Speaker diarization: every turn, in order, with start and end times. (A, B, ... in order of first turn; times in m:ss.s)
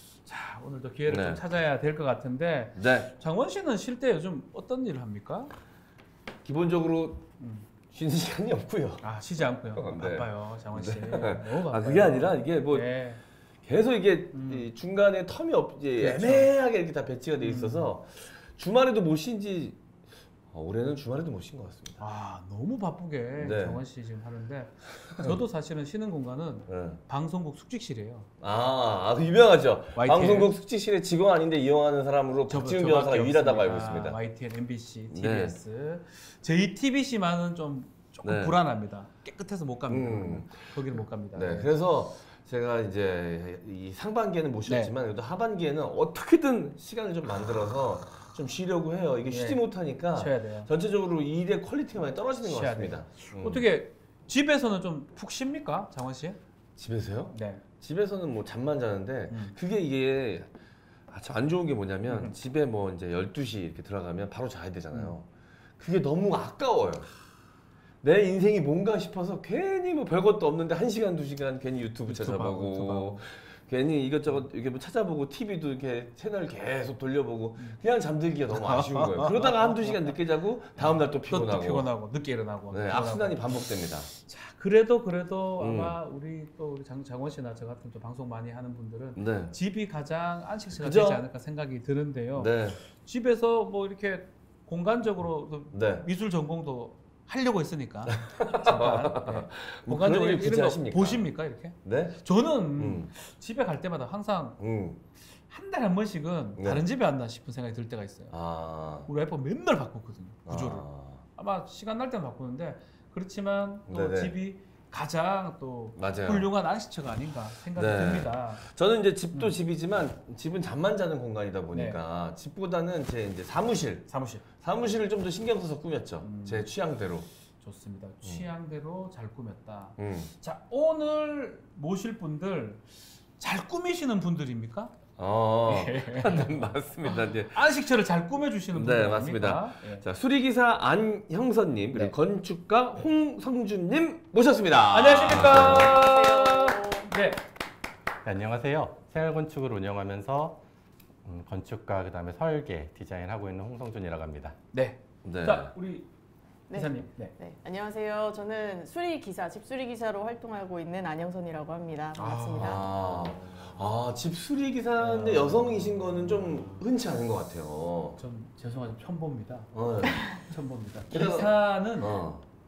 0:00.3-0:05.5 A
0:01.1-0:01.4 B
0:02.8-0:03.1 B
0:06.4-0:07.2 B
0:07.4-0:07.7 A
0:07.9-0:09.0 B
0:09.0-0:13.2 A
0:09.8-0:12.9 B
0:13.6-0:19.8 B
0:14.3-0:14.7 A
0:16.0-0:16.5 A
0:17.4-0:17.9 A
0:20.5-0:22.0 B
0:22.0-0:28.3 A
0:23.4-0:23.8 B
0:26.7-0:27.0 B
0:28.4-0:34.2 B
0:30.0-0:30.5 A
0:32.5-0:41.7 A
0:35.1-0:35.6 B
0:38.2-0:38.6 B
0:39.9-0:53.6 B
0:44.7-0:44.9 A
0:49.3-0:50.7 A
0:52.4-0:56.4 A
0:56.8-1:00.5 B
0:57.3-0:57.6 A
0:59.3-0:59.6 A
1:01.1-1:05.3 B
1:02.1-1:02.4 A
1:05.8-1:07.1 B
1:08.0-1:21.9 B
1:12.1-1:13.2 A
1:18.5-1:20.2 A
1:20.8-1:44.6 A
1:22.7-1:24.1 B
1:25.6-1:25.9 B
1:29.2-1:29.5 B
1:30.8-1:31.2 B
1:32.4-1:32.8 B
1:35.7-1:36.1 B
1:38.3-1:41.3 B
1:41.8-1:42.2 B
1:42.8-1:43.1 B
1:44.6-1:45.0 B
1:45.5-1:48.4 A
1:46.6-1:46.8 B
1:48.3-1:49.1 B
1:49.1-1:58.7 A
1:50.5-1:51.2 B
1:53.9-1:54.3 B
1:56.0-1:56.5 B
1:57.8-2:07.3 B
2:01.7-2:02.0 A
2:04.1-2:04.5 A
2:06.2-2:06.7 A
2:07.6-2:14.9 A
2:10.0-2:10.3 B
2:15.2-2:17.6 B
2:15.7-2:20.0 A
2:18.7-2:26.0 B
2:24.9-2:27.4 A
2:25.5-2:27.1 C
2:28.2-2:30.6 D
2:31.2-2:34.6 D
2:34.7-2:36.1 A
2:35.2-2:35.7 B
2:36.7-2:42.9 C
2:36.7-2:37.3 A
2:42.2-2:43.7 A
2:42.6-2:48.2 B
2:45.0-2:46.8 A
2:48.2-2:52.2 A
2:49.7-2:50.4 B
2:51.1-2:52.4 B